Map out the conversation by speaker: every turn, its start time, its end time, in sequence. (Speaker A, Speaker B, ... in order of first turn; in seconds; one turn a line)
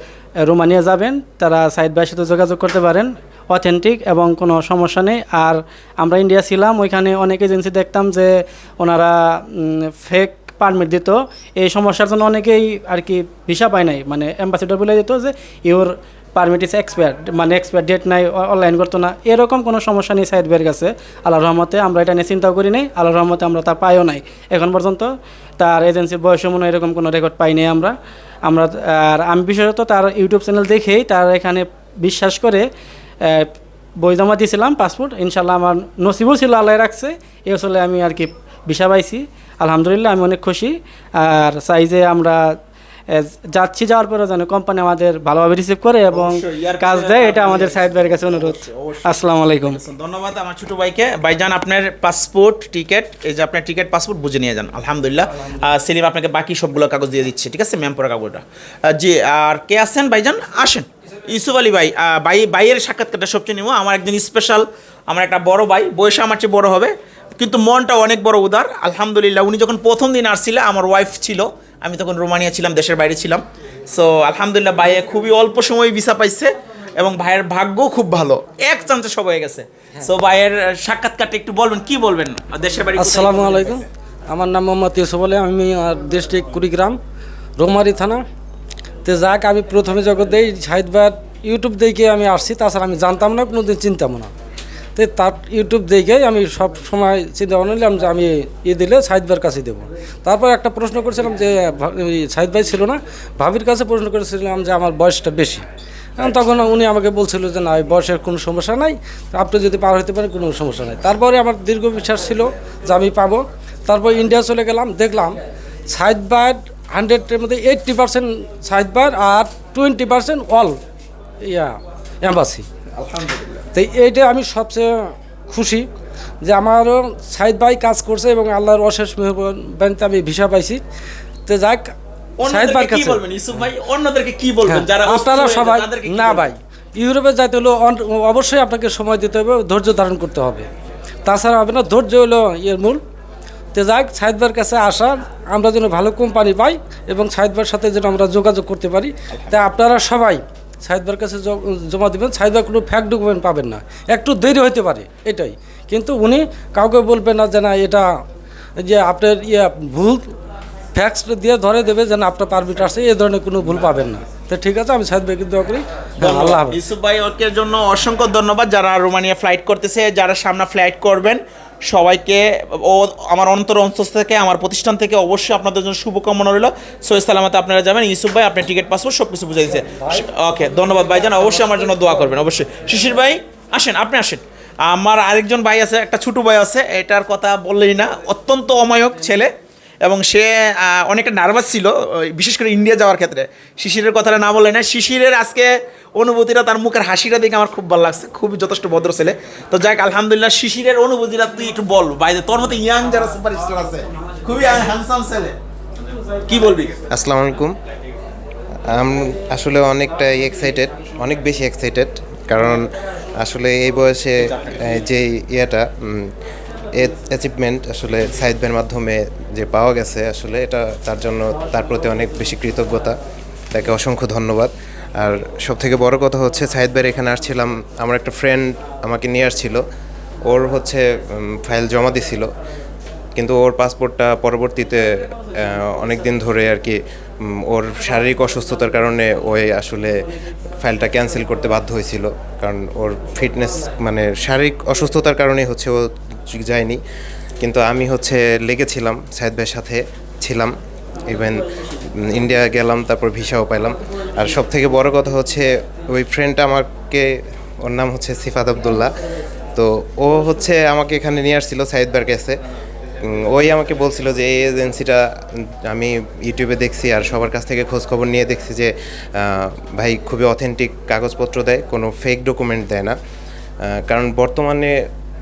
Speaker A: 0.4-27.9
Speaker A: 28.4-32.6
Speaker A: 33.2-33.5
Speaker A: 34.0-42.4
Speaker A: 43.1-49.8
Speaker B: 46.1-83.8
Speaker C: 83.0-87.0
Speaker C: 87.6-88.2
Speaker C: 89.0-94.3
Speaker C: 95.0-105.6
Speaker C: 106.2-115.4
Speaker C: 115.9-120.8
Speaker C: 121.4-122.6
Speaker B: 123.0-123.6
Speaker C: 123.7-124.9
Speaker C: 125.5-125.9
Speaker C: 126.4-130.8
Speaker C: 131.5-131.9
Speaker B: 132.4-136.5
Speaker C: 132.4-133.2
Speaker C: 134.6-140.7
Speaker C: 141.2-143.0
Speaker C: 143.7-158.1
Speaker B: 149.3-149.6
Speaker C: 158.8-160.3
Speaker C: 160.9-166.8
Speaker B: 166.2-189.5
Speaker B: 190.0-205.5
Speaker B: 206.5-207.0
Speaker D: 207.1-207.8
Speaker D: 208.9-212.9
Speaker D: 213.4-216.3
Speaker B: 214.4-214.9
Speaker D: 216.9-223.2
Speaker D: 223.7-229.8
Speaker D: 230.5-232.5
Speaker D: 233.3-237.0
Speaker D: 237.7-240.1
Speaker D: 240.8-246.0
Speaker D: 246.5-247.0
Speaker D: 247.6-250.7
Speaker D: 251.2-251.7
Speaker D: 252.2-259.1
Speaker D: 259.8-262.6
Speaker D: 263.3-273.1
Speaker D: 274.1-274.9